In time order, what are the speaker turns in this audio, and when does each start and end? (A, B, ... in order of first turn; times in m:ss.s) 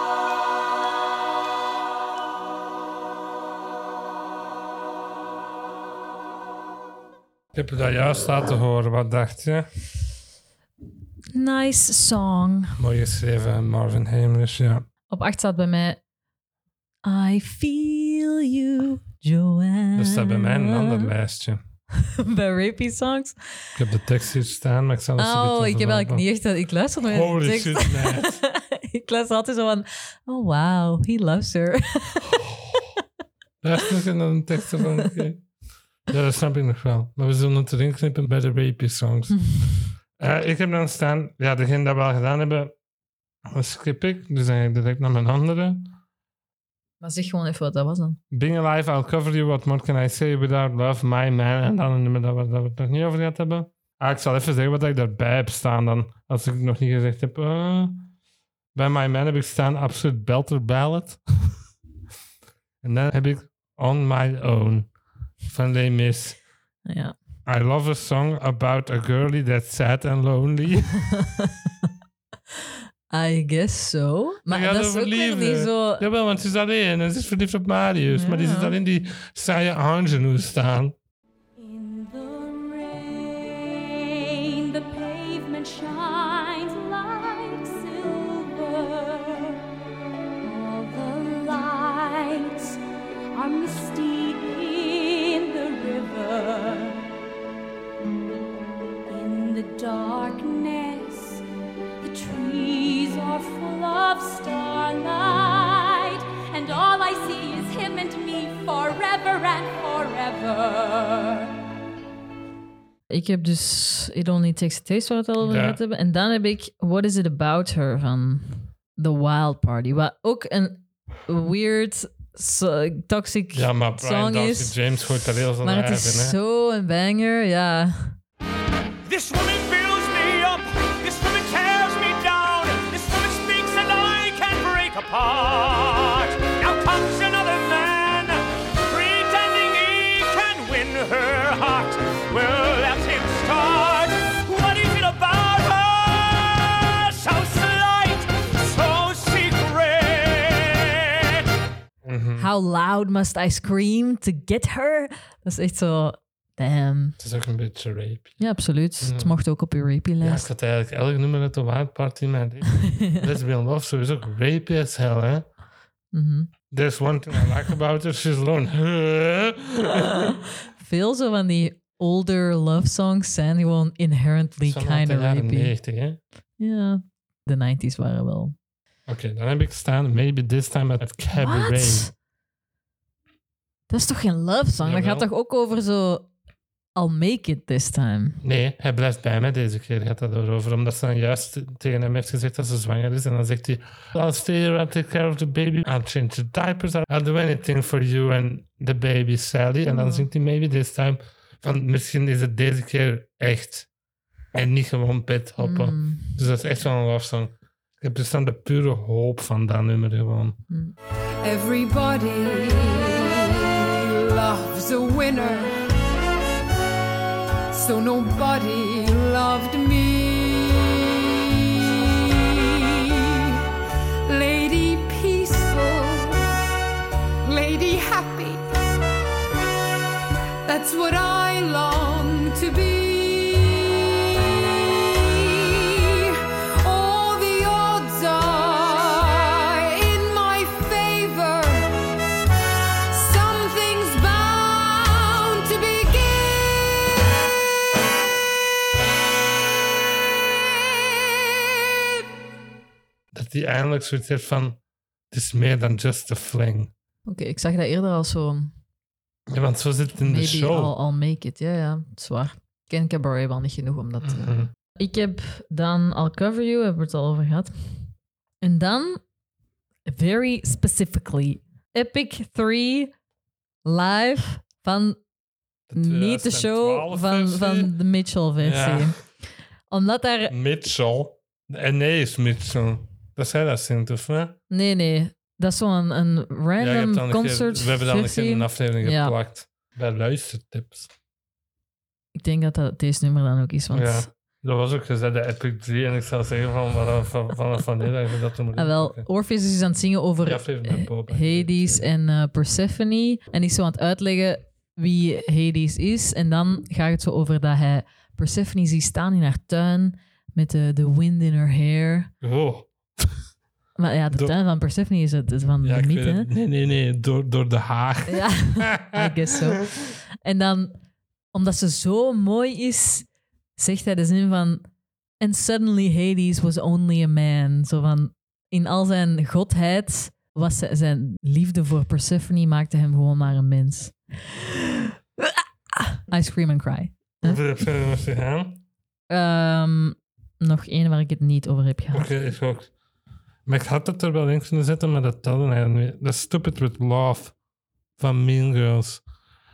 0:07.5-0:09.7 A
0:11.3-0:12.8 B
0:12.8-0:14.8 A
0:15.1-0:16.0 B
0:17.0-0:21.1 B
0:19.9-0:21.6 A
0:22.0-0:23.7 B
0:23.8-0:26.2 A
0:25.2-0:32.3 B
0:27.0-0:28.4 A
0:32.3-0:32.8 A
0:33.6-0:35.4 A
0:36.1-0:39.4 A
0:39.4-0:39.7 B
0:40.2-0:42.7 A
0:43.5-0:45.9 A
0:47.0-0:48.2 B
0:48.3-0:58.1 A
0:58.7-1:01.6 A
1:02.8-1:04.9 A
1:05.4-1:06.4 A
1:06.9-1:07.1 B
1:07.4-1:11.0 A
1:11.2-1:11.5 B
1:13.1-1:16.0 B
1:14.5-1:20.9 A
1:18.1-1:18.8 B
1:21.6-1:29.6 C
1:30.4-1:32.8 C
1:33.3-1:37.1 C
1:39.1-1:41.4 C
1:42.0-1:51.5 C
1:53.1-2:04.8 B
1:55.4-1:55.8 A
2:03.5-2:06.4 A
2:05.6-2:08.1 B
2:09.0-2:31.4 D
2:32.0-2:32.5 A
2:32.4-2:37.2 B
2:37.2-2:38.4 A
2:38.4-2:40.5 B
2:39.0-2:39.4 A
2:40.2-2:45.5 A
2:42.8-2:43.2 B
2:46.1-2:46.5 B
2:46.7-2:50.3 A
2:50.8-2:55.7 B
2:54.6-2:56.2 A
2:56.6-2:58.5 B
2:59.1-3:02.1 A
3:01.3-3:02.1 B
3:03.9-3:06.3 B
3:04.8-3:05.2 A
3:07.0-3:08.4 B
3:08.4-3:23.9 A
3:19.9-3:20.2 B
3:24.5-3:30.6 A
3:25.6-3:26.4 B
3:31.4-3:35.8 E
3:37.7-3:43.6 E
3:44.3-3:46.5 E
3:47.4-3:48.6 E
3:50.6-4:02.0 E
4:03.1-4:06.7 E
4:13.3-4:14.8 A
4:15.3-4:16.9 A
4:17.3-4:18.7 B
4:19.5-4:20.9 A
4:20.2-4:28.0 B
4:24.2-4:24.7 A
4:28.6-4:29.2 B
4:30.1-4:33.1 B
4:33.8-4:35.2 B
4:35.9-4:37.9 A
4:35.9-4:39.2 B
4:38.6-4:39.1 A
4:39.9-4:40.5 B
4:40.5-4:44.6 A
4:44.7-4:49.3 B
4:46.8-4:51.1 A
4:52.3-4:54.3 B
4:53.9-4:59.3 A
4:58.8-5:12.3 B
5:00.4-5:02.1 A
5:12.4-5:13.4 A
5:14.0-5:16.5 B
5:15.8-5:19.8 A
5:18.3-5:21.0 B
5:21.5-5:24.8 B
5:25.4-5:35.4 B
5:36.0-5:37.6 B
5:37.4-5:38.8 A
5:39.3-5:42.3 B
5:42.1-5:42.9 A
5:43.6-5:47.5 A
5:48.2-5:49.2 A